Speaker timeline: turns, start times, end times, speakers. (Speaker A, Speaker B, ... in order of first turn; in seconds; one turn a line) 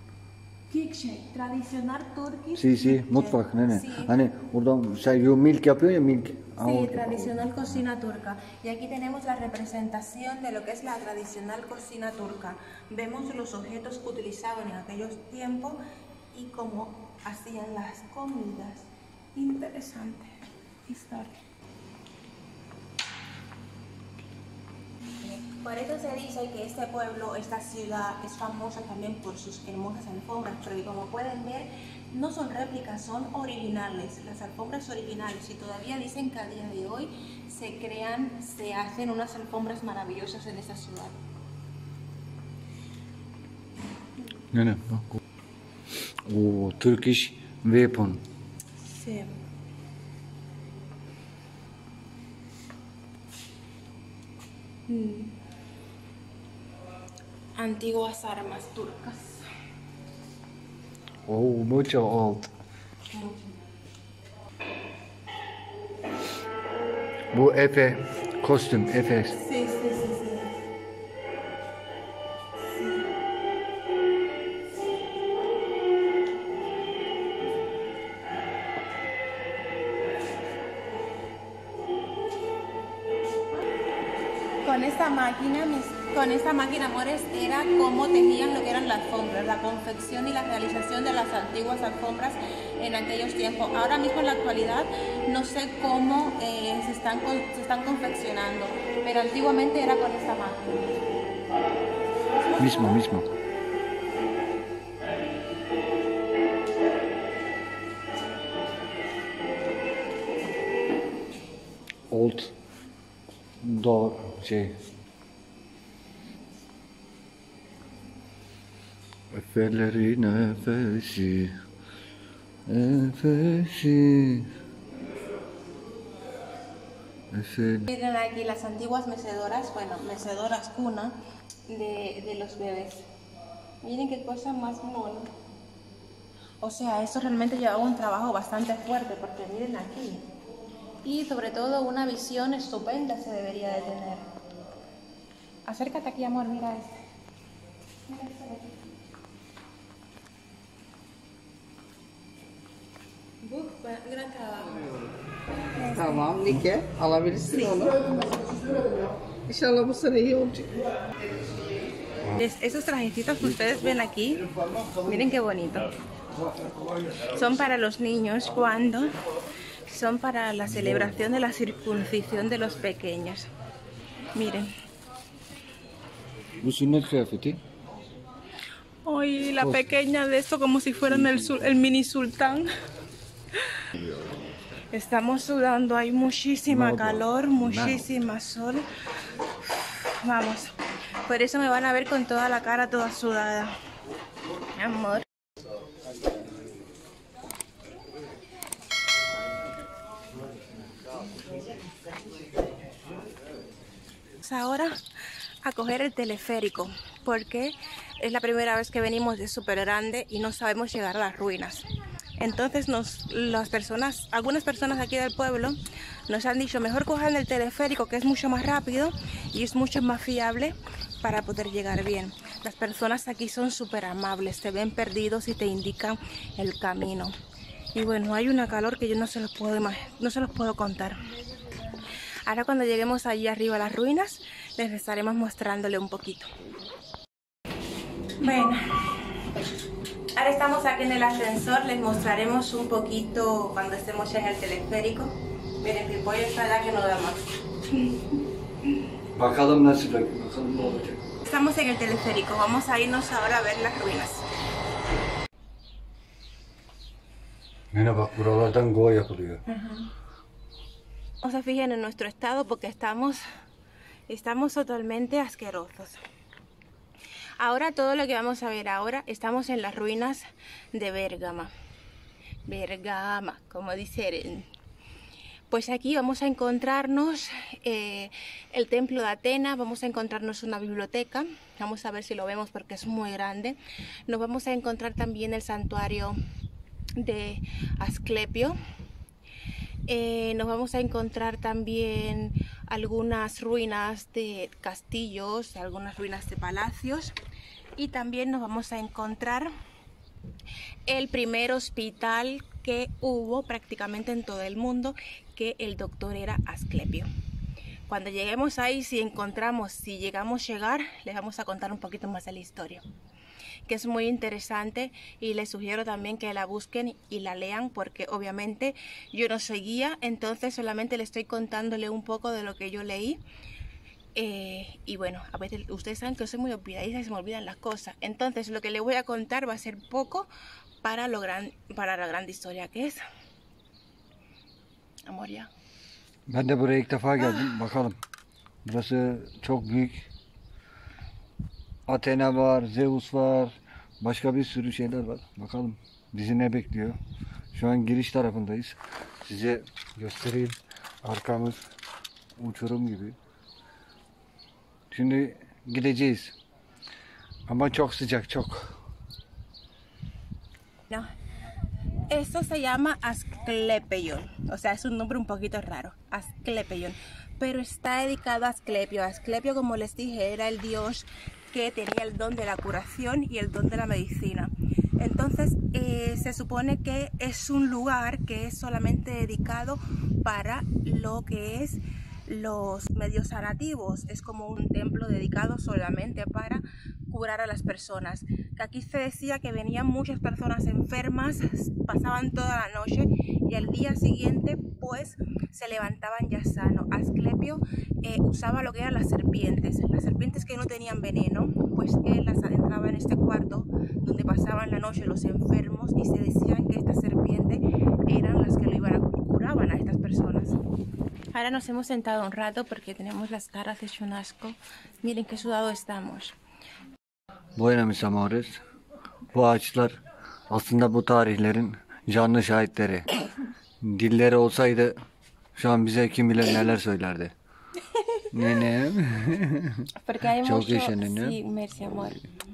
Speaker A: 0.7-4.1
Speaker B: 2.5-7.5
Speaker A: 6.6-15.8
Speaker A: 16.3-20.3
Speaker A: 20.9-21.3
Speaker A: 25.2-41.2
Speaker B: 44.5-45.2
Speaker B: 46.2-48.2
Speaker A: 48.9-49.3
Speaker A: 54.9-55.3
Speaker A: 57.5-59.5
Speaker B: 61.2-62.5
Speaker B: 67.3-69.4
Speaker A: 69.3-70.5
Speaker A: 84.6-100.8
Speaker B: 102.6-103.2
Speaker B: 112.1-112.5
Speaker B: 113.6-114.8
Speaker B: 119.3-121.5
Speaker B: 122.7-124.5
Speaker B: 127.3-127.9
Speaker A: 127.9-133.1
Speaker A: 133.8-135.3
Speaker A: 136.6-140.2
Speaker A: 141.0-144.3
Speaker A: 145.7-146.9
Speaker A: 148.1-148.8
Speaker A: 153.4-154.9
Speaker C: 155.9-160.7
Speaker A: 162.3-164.4
Speaker A: 165.0-165.9
Speaker A: 167.3-169.1
Speaker A: 169.9-173.5
Speaker A: 174.3-174.7
Speaker B: 176.6-177.6
Speaker A: 179.1-182.7
Speaker B: 179.6-179.8
Speaker A: 184.9-188.8
Speaker B: 186.7-188.0
Speaker A: 190.0-190.7
Speaker A: 191.2-193.7
Speaker A: 194.8-195.2
Speaker A: 204.4-205.0
Speaker A: 205.6-211.8
Speaker A: 212.4-227.3
Speaker A: 227.9-231.2
Speaker A: 232.4-236.5
Speaker A: 238.4-239.0
Speaker A: 240.3-247.4
Speaker B: 249.3-251.4
Speaker A: 251.5-254.4
Speaker B: 257.9-259.6
Speaker A: 259.7-260.1
Speaker A: 261.4-263.4
Speaker A: 264.3-266.2
Speaker A: 267.6-271.7
Speaker A: 272.6-274.7
Speaker A: 275.7-286.4
Speaker A: 287.2-288.8
Speaker A: 290.1-297.3
Speaker A: 297.9-299.7
Speaker A: 301.1-307.3
Speaker A: 308.1-313.0
Speaker A: 313.9-323.4
Speaker A: 324.3-330.5
Speaker A: 331.0-333.2
Speaker A: 335.2-335.7
Speaker B: 336.5-338.2
Speaker B: 338.8-340.2
Speaker B: 342.1-347.2
Speaker B: 347.7-351.8
Speaker B: 352.6-353.4
Speaker B: 355.1-356.6
Speaker B: 357.7-358.9
Speaker A: 362.3-410.8
Speaker A: 411.5-416.5
Speaker B: 417.8-418.8
Speaker B: 419.5-423.3
Speaker B: 424.0-425.1
Speaker B: 425.8-427.5
Speaker B: 428.5-431.6
Speaker A: 430.2-432.4